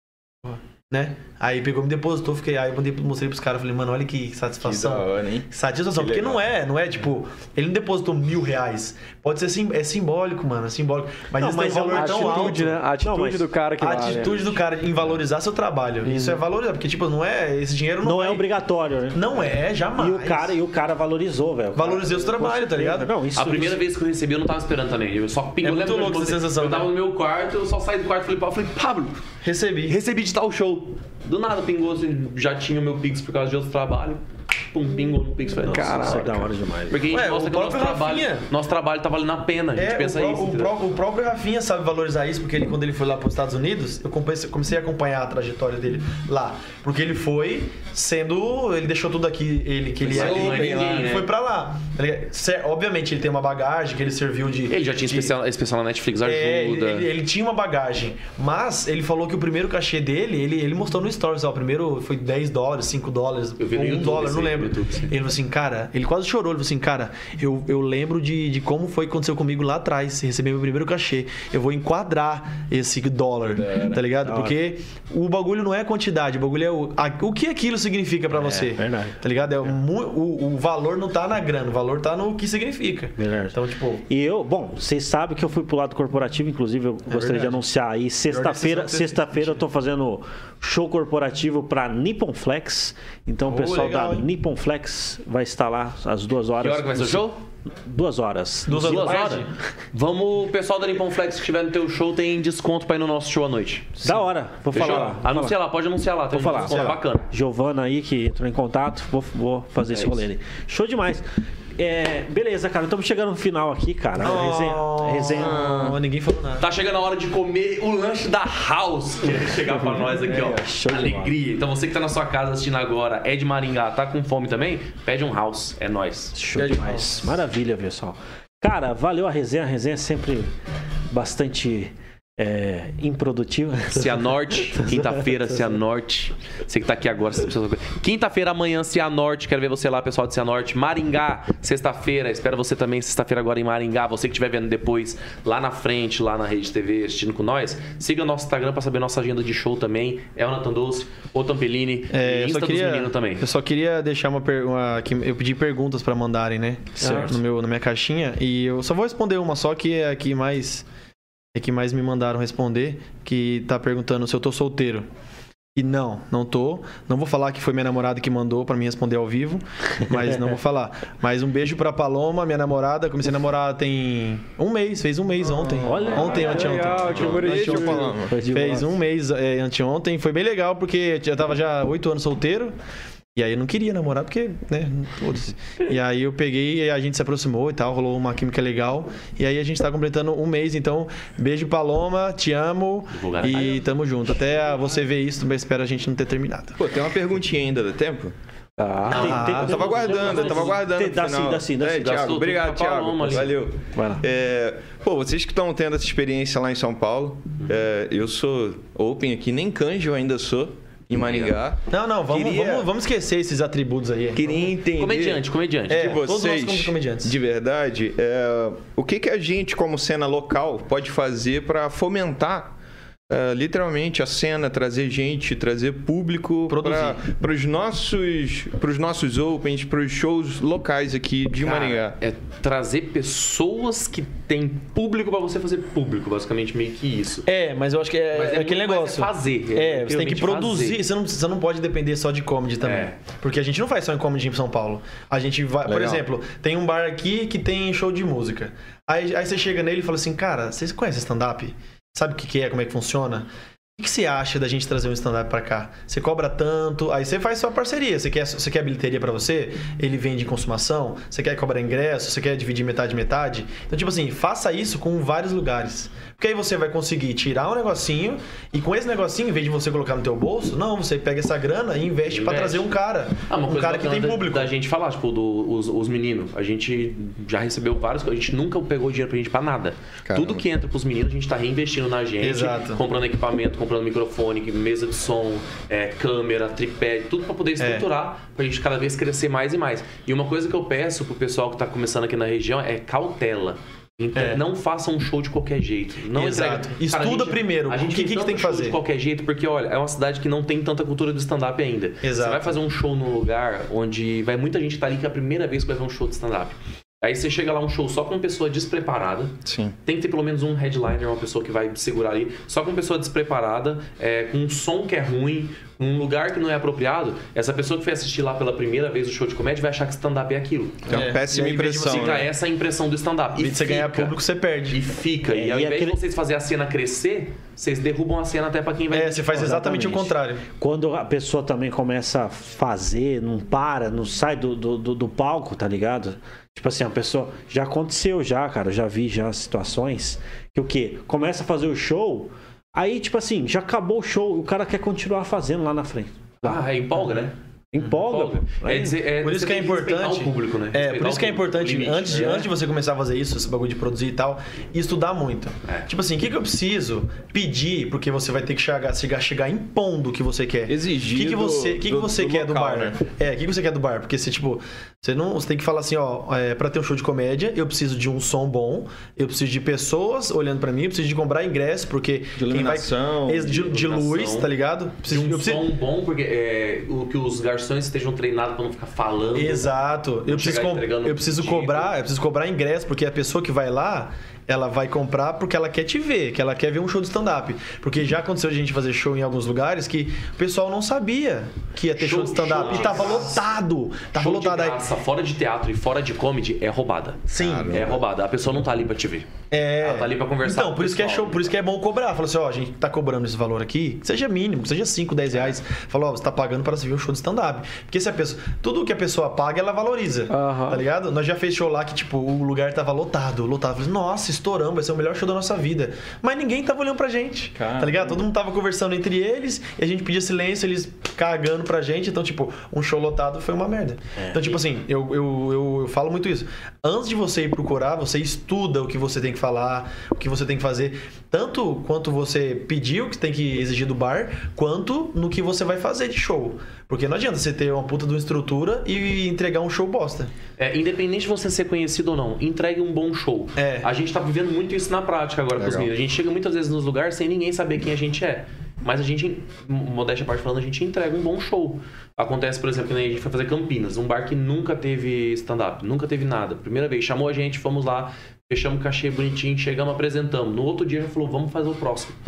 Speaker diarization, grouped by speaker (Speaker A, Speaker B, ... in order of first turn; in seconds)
Speaker A: 0.4-12.8, 13.8-18.5, 19.1-20.6, 21.7-23.1, 25.6-26.9, 29.4-30.0, 37.1-38.5, 39.7-55.3, 56.2-84.0, 87.1-87.6, 88.3-89.6, 93.5-94.3, 98.7-99.5, 106.5-107.0, 114.2-116.7, 126.5-127.3, 152.1-160.8, 161.5-165.1, 165.7-182.7, 183.3-196.8, 199.1-199.8, 211.9-214.6, 215.9-217.3, 226.7-227.2, 237.4-274.7, 282.4-283.0, 287.8-288.1, 294.3-294.6, 296.3-299.0, 302.2-302.8, 321.1-322.4, 323.5-325.0, 329.1-330.6, 349.4-375.8, 379.5-395.0, 397.5-398.1, 399.7-440.5, 443.8-444.1
Speaker B: 4.6-6.4, 50.0-51.2, 115.4-116.0, 175.5-176.4, 176.9-178.3, 196.8-198.3, 199.1-212.9, 214.3-222.7, 223.3-232.2, 245.8-246.2, 280.2-280.6, 309.6-309.9, 321.1-322.5, 360.9-363.1, 372.6-373.8, 397.6-398.2, 417.8-418.2, 445.8-446.1
Speaker C: 11.4-13.5, 18.0-19.4, 19.9-23.8, 35.6-37.1, 74.2-74.6, 78.3-79.2, 83.2-97.3, 97.8-99.3, 104.0-105.5, 106.3-115.7, 120.2-121.3, 126.3-130.5, 131.1-135.6, 157.0-157.3, 175.8-178.9, 198.8-202.2, 203.3-204.2, 325.5-326.2, 329.5-346.9, 347.9-349.2, 424.4-424.6
Speaker D: 11.8-14.6, 16.1-16.3, 35.6-36.4, 176.2-178.1, 410.5-411.0
Speaker E: 23.4-29.2, 29.9-40.8, 50.0-51.3, 54.7-57.1, 63.6-65.1, 96.6-97.4, 98.7-104.0, 104.7-107.2, 116.6-126.3, 133.9-153.4, 193.1-193.8, 199.0-200.8, 201.9-203.6, 211.2-211.5, 214.9-216.2, 231.6-237.5, 238.3-241.0, 242.8-243.2, 272.3-272.9, 273.5-321.1, 322.0-324.4, 324.9-329.5, 346.6-347.5, 348.1-352.6, 373.7-374.7, 375.2-379.9, 380.4-382.1, 392.1-393.6, 394.3-399.5, 400.0-401.7, 440.8-462.4